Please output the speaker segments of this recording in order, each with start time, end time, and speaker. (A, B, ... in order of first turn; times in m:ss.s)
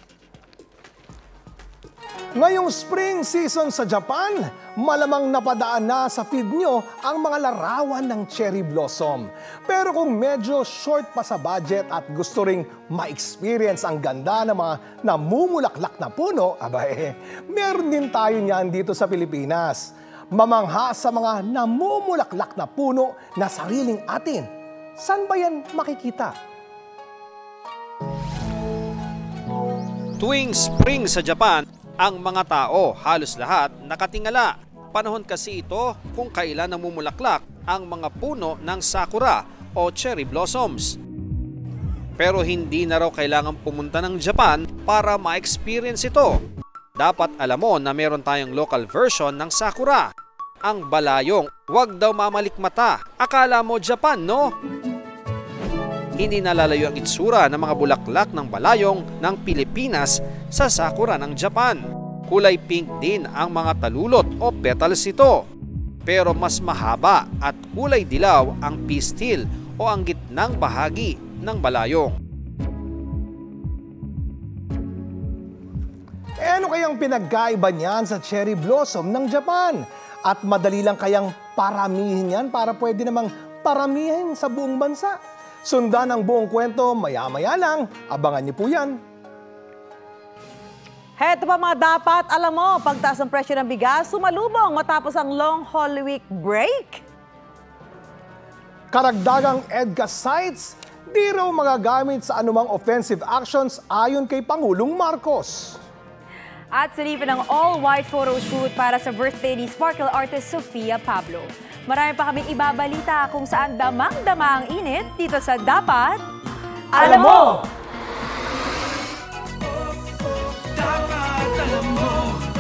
0:02.4-0:26.4 A
0:30.2-0:41.0 B
0:42.2-0:46.4 B
0:47.0-0:50.0 B
0:50.7-0:54.5 B
0:56.2-1:01.8 B
1:02.3-1:05.4 B
1:06.1-1:12.1 B
1:16.4-1:29.0 A
1:31.2-1:37.0 C
1:38.9-1:45.8 A
1:46.7-1:56.2 D
1:57.0-1:57.5 D
1:57.0-1:57.6 A